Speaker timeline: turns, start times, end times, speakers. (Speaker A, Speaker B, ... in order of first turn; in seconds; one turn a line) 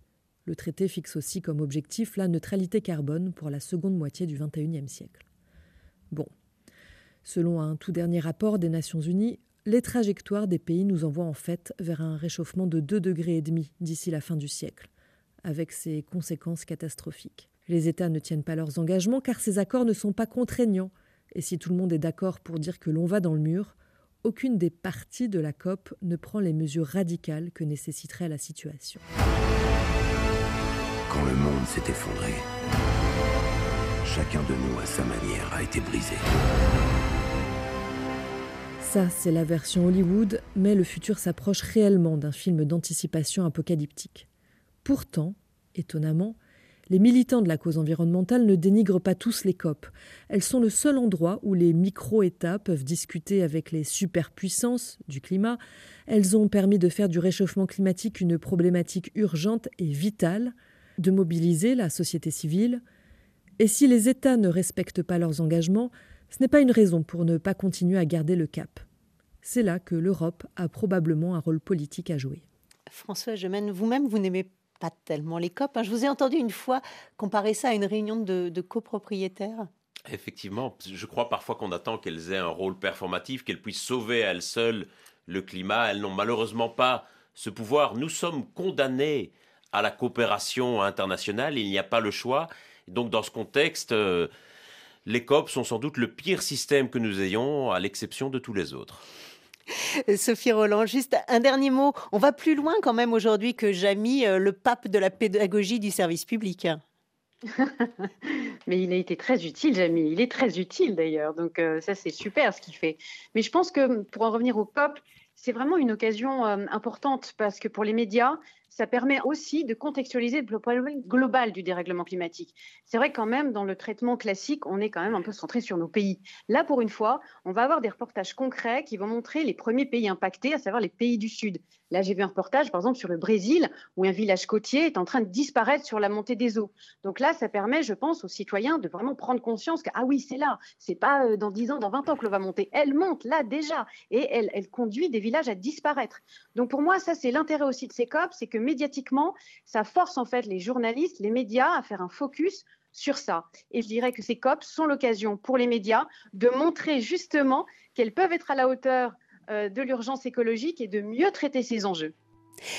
Speaker A: 0.5-5.2
Speaker A: 7.2-14.9
Speaker A: 15.4-29.0
Speaker B: 31.1-32.5
Speaker B: 34.0-36.3
Speaker A: 38.8-44.3
Speaker A: 44.8-46.4
Speaker A: 46.9-62.8
Speaker A: 63.6-68.8
Speaker A: 69.4-72.4
Speaker C: 72.9-79.7
Speaker D: 80.1-94.3
Speaker D: 95.1-99.0
Speaker C: 100.1-106.8
Speaker E: 107.6-162.1